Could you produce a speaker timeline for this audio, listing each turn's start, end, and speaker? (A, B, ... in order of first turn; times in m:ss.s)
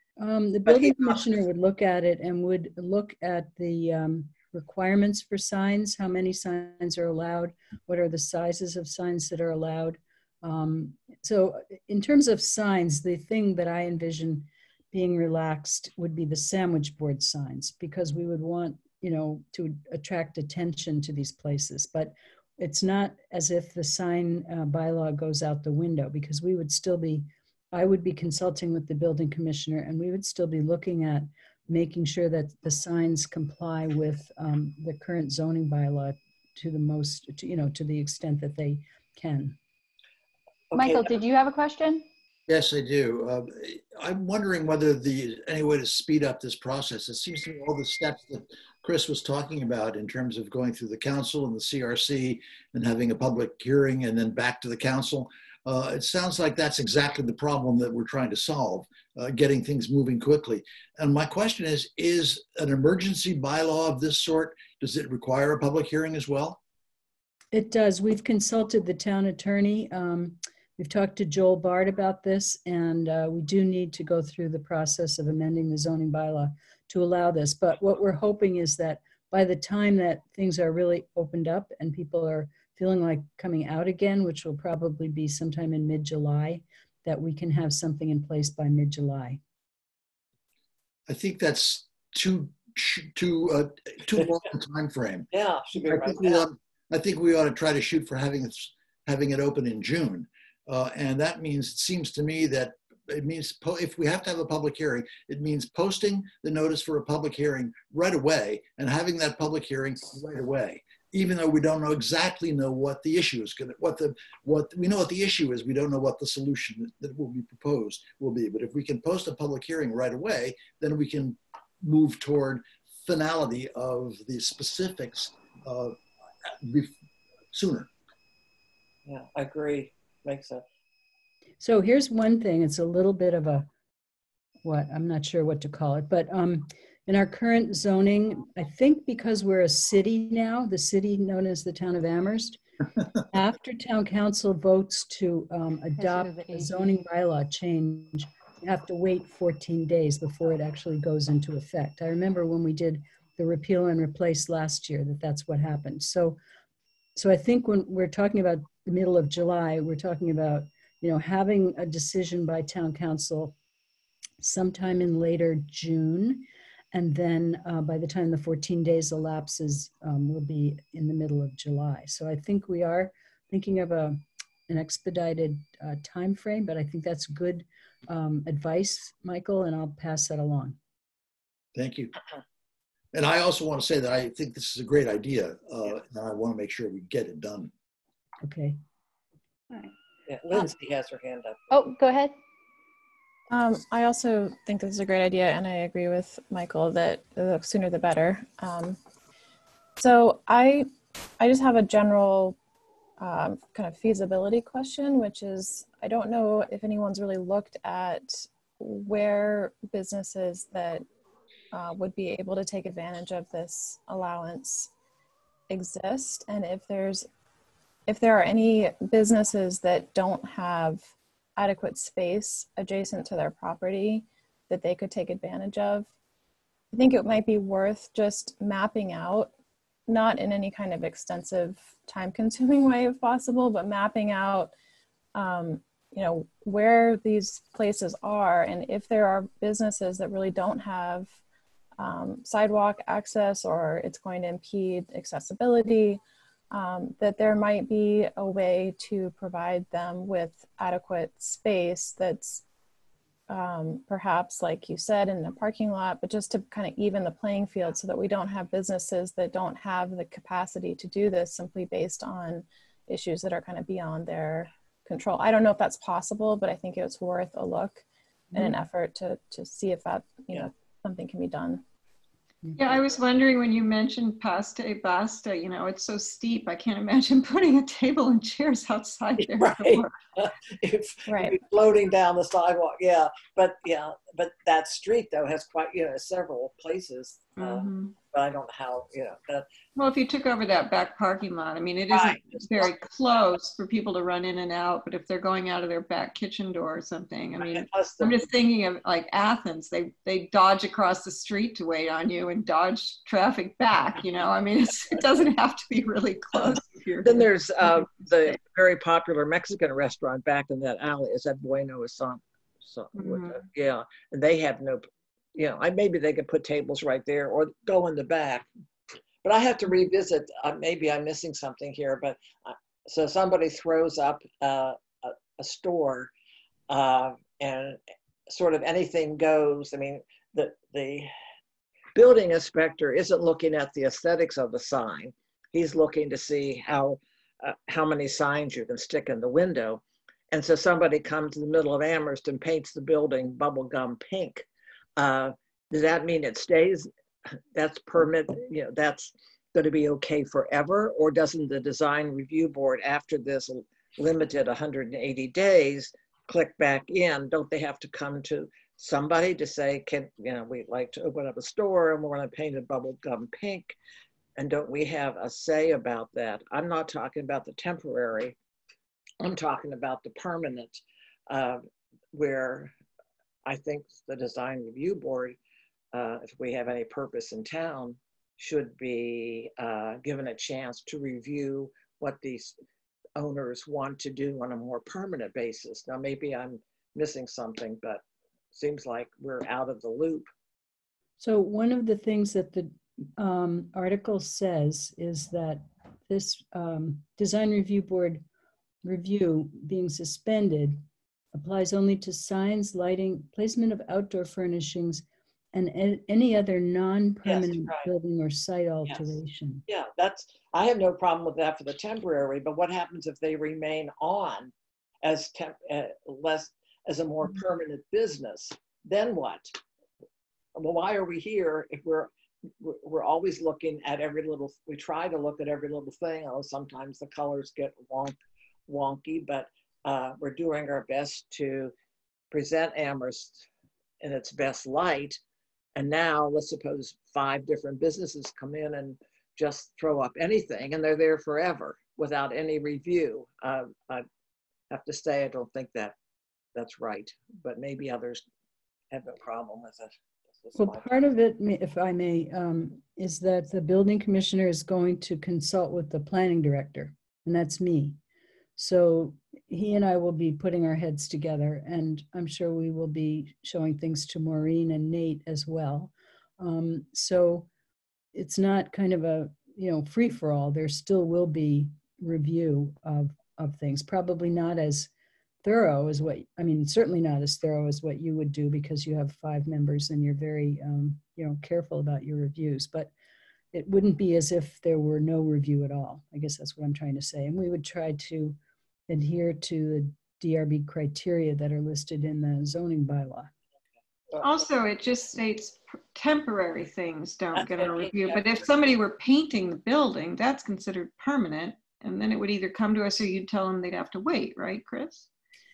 0:00.2-0:39.6 A
0:00.7-0:01.2 B
0:40.7-0:41.2 B
0:40.8-0:42.1 C
0:42.5-1:06.6 D
1:07.5-1:29.4 A
1:31.1-1:35.3 D
1:34.2-1:34.4 B
1:35.3-1:36.5 B
1:35.9-2:06.0 D
2:06.6-2:06.9 D
2:07.5-2:07.9 D
2:09.1-2:10.6 B
2:11.6-2:13.7 A
2:14.6-2:22.6 A
2:23.3-2:36.4 A
2:26.0-2:26.8 C
2:37.2-2:43.6 A
2:44.4-3:00.8 A
3:01.8-3:02.1 D
3:03.1-3:07.7 D
3:08.4-3:08.8 A
3:10.3-3:11.7 B
3:11.7-3:12.4 C
3:13.5-3:19.0 E
3:20.0-3:22.6 E
3:23.2-3:31.0 E
3:31.7-3:34.9 E
3:35.7-3:37.3 E
3:38.1-3:46.1 E
3:46.9-3:49.5 E
3:50.1-3:54.7 E
3:55.3-4:01.4 E
4:02.0-4:12.6 E
4:13.5-4:31.8 E
4:32.8-4:40.2 F
4:39.4-4:49.7 B
4:41.3-4:41.6 E
4:47.6-4:48.2 F
4:50.0-5:08.1 F
4:52.1-4:52.9 B
4:57.6-4:58.4 B
5:07.2-5:18.7 B
5:13.2-5:13.6 F
5:19.4-5:26.3 B
5:26.9-5:31.3 B
5:32.2-5:44.7 B
5:45.2-5:47.1 B
5:47.8-6:04.0 B
6:04.6-6:08.6 B
6:09.4-6:12.9 B
6:13.7-6:15.6 B
6:16.1-6:22.8 B
6:23.4-6:28.2 B
6:28.7-6:30.5 B
6:31.4-6:38.4 A
6:39.0-6:41.0 A
6:41.5-6:49.8 A
6:47.4-6:48.1 B
6:49.9-6:54.7 B
6:55.2-6:59.8 B
7:00.8-7:02.3 B
7:02.8-7:08.4 B
7:08.9-7:11.9 B
7:12.5-7:13.7 B
7:14.2-7:15.4 B
7:16.0-7:24.3 B
7:24.9-7:26.2 B
7:26.8-7:28.4 B
7:29.1-7:31.1 B
7:30.8-7:38.2 A
7:38.8-7:47.7 A
7:48.3-7:55.1 A
7:55.6-8:03.1 A
8:03.7-8:08.6 A
8:09.1-8:13.5 A
8:14.3-8:14.6 B
8:14.4-8:25.3 F
8:17.6-8:18.4 B